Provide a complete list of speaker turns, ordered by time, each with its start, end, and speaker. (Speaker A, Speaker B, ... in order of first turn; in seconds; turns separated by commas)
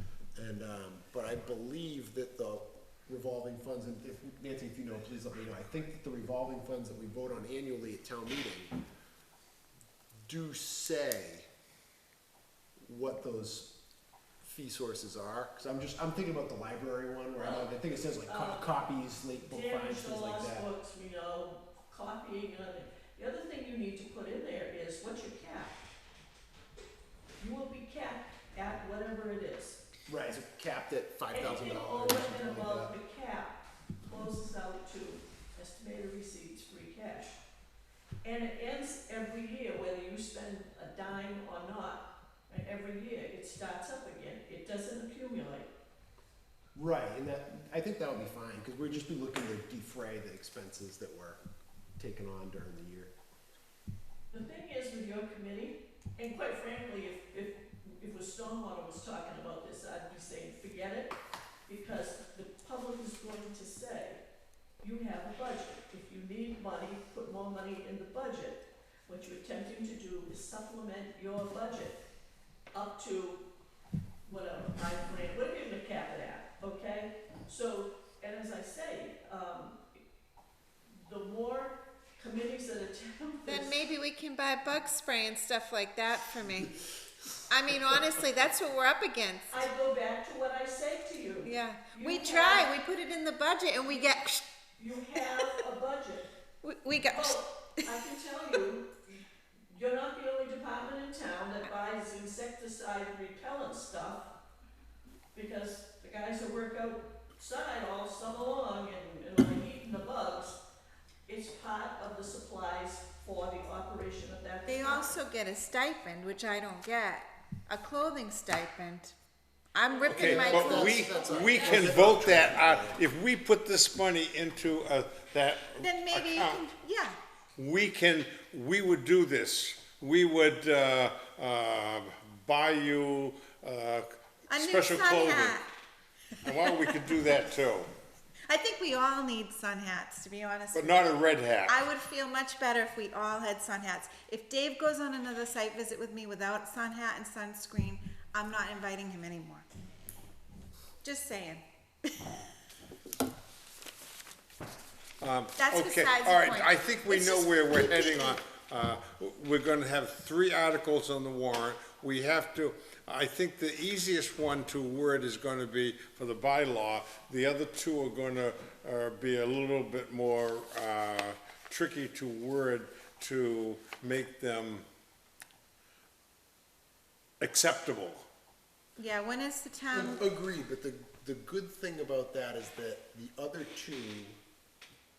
Speaker A: 0.3-8.7, Speaker A: 10.2-11.5, Speaker A: 12.8-13.7, Speaker A: 14.4-20.7, Speaker B: 17.4-17.7, Speaker B: 18.2-18.7, Speaker B: 19.4-25.8, Speaker B: 27.4-29.8, Speaker A: 30.1-32.9, Speaker B: 31.3-37.4, Speaker B: 38.2-45.7, Speaker A: 46.7-51.4, Speaker A: 52.0-53.1, Speaker B: 54.3-64.2, Speaker B: 64.8-72.0, Speaker B: 72.7-73.4, Speaker B: 74.2-79.8, Speaker B: 80.9-83.8, Speaker C: 83.4-86.8, Speaker C: 87.5-89.6, Speaker B: 89.5-92.7, Speaker C: 91.4-94.4, Speaker B: 93.8-94.2, Speaker B: 94.8-96.3, Speaker C: 95.1-95.5, Speaker C: 96.6-98.5, Speaker B: 97.1-104.3, Speaker B: 105.3-110.6, Speaker B: 111.2-115.2, Speaker C: 114.7-119.1, Speaker C: 119.7-121.2, Speaker B: 119.8-122.3, Speaker A: 120.0-123.0, Speaker D: 120.0-126.6, Speaker C: 125.8-127.2, Speaker D: 127.6-135.6, Speaker C: 134.5-135.6, Speaker D: 136.4-137.9, Speaker C: 136.5-136.9, Speaker C: 138.5-141.1, Speaker D: 140.7-141.8, Speaker C: 141.6-149.6, Speaker C: 151.0-152.5, Speaker D: 155.2-174.8, Speaker C: 155.6-158.4, Speaker D: 177.4-178.2, Speaker C: 179.0-180.2, Speaker A: 179.9-184.4